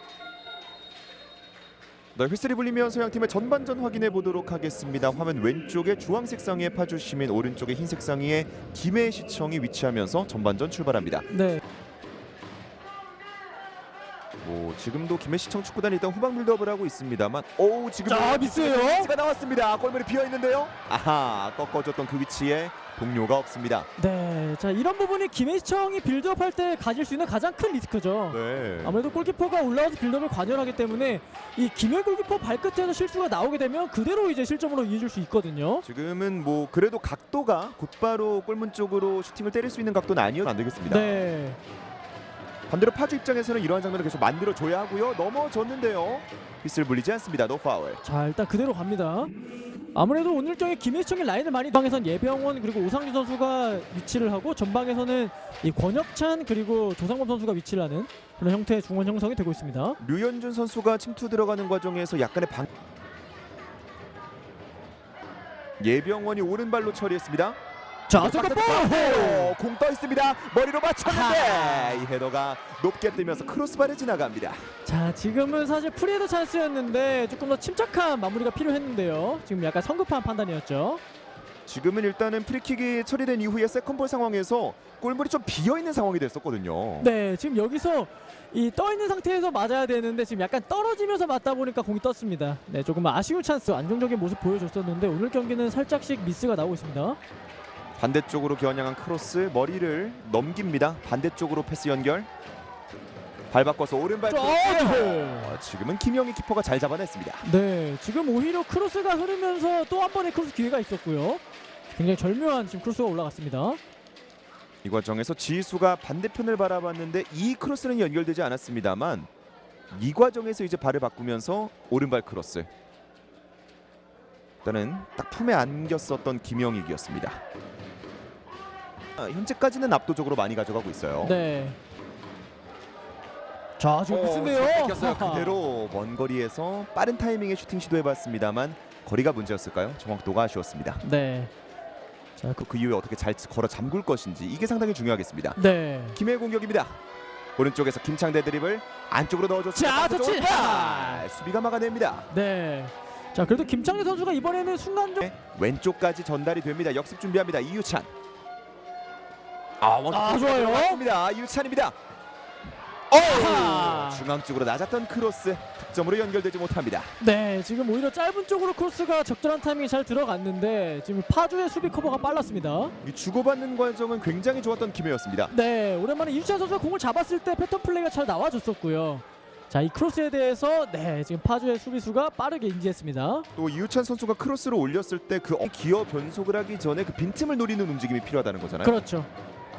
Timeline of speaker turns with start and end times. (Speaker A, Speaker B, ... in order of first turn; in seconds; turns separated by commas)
Speaker A: 2.1-11.3, Speaker B: 11.3-11.6, Speaker A: 14.4-23.9, Speaker B: 18.0-19.1, Speaker B: 24.0-35.8, Speaker A: 28.3-29.0, Speaker A: 35.8-41.1, Speaker B: 40.9-41.6, Speaker A: 42.7-48.0, Speaker B: 48.0-49.3, Speaker B: 49.9-60.0, Speaker A: 60.0-62.7, Speaker A: 65.8-67.6, Speaker B: 68.1-69.5, Speaker A: 68.1-74.6, Speaker B: 71.0-72.1, Speaker B: 74.8-81.0, Speaker A: 81.7-87.1, Speaker B: 87.0-97.2, Speaker A: 98.0-102.3, Speaker A: 103.5-107.5, Speaker B: 104.3-105.6, Speaker B: 107.4-113.8, Speaker A: 114.8-119.3, Speaker A: 119.9-122.7, Speaker A: 124.6-127.4, Speaker A: 129.2-131.4, Speaker B: 131.2-131.8, Speaker B: 133.8-135.6, Speaker A: 134.1-141.0, Speaker B: 141.0-141.5, Speaker A: 142.6-145.6, Speaker B: 145.6-146.2, Speaker A: 146.1-147.0, Speaker A: 147.6-152.3, Speaker B: 149.7-151.2, Speaker B: 152.3-155.3, Speaker A: 155.2-158.1, Speaker A: 159.8-161.9, Speaker B: 160.1-161.0, Speaker B: 163.1-164.2, Speaker A: 163.1-167.1, Speaker B: 167.2-172.9, Speaker A: 173.0-175.5, Speaker B: 175.5-183.5, Speaker A: 183.6-188.9, Speaker B: 188.8-189.3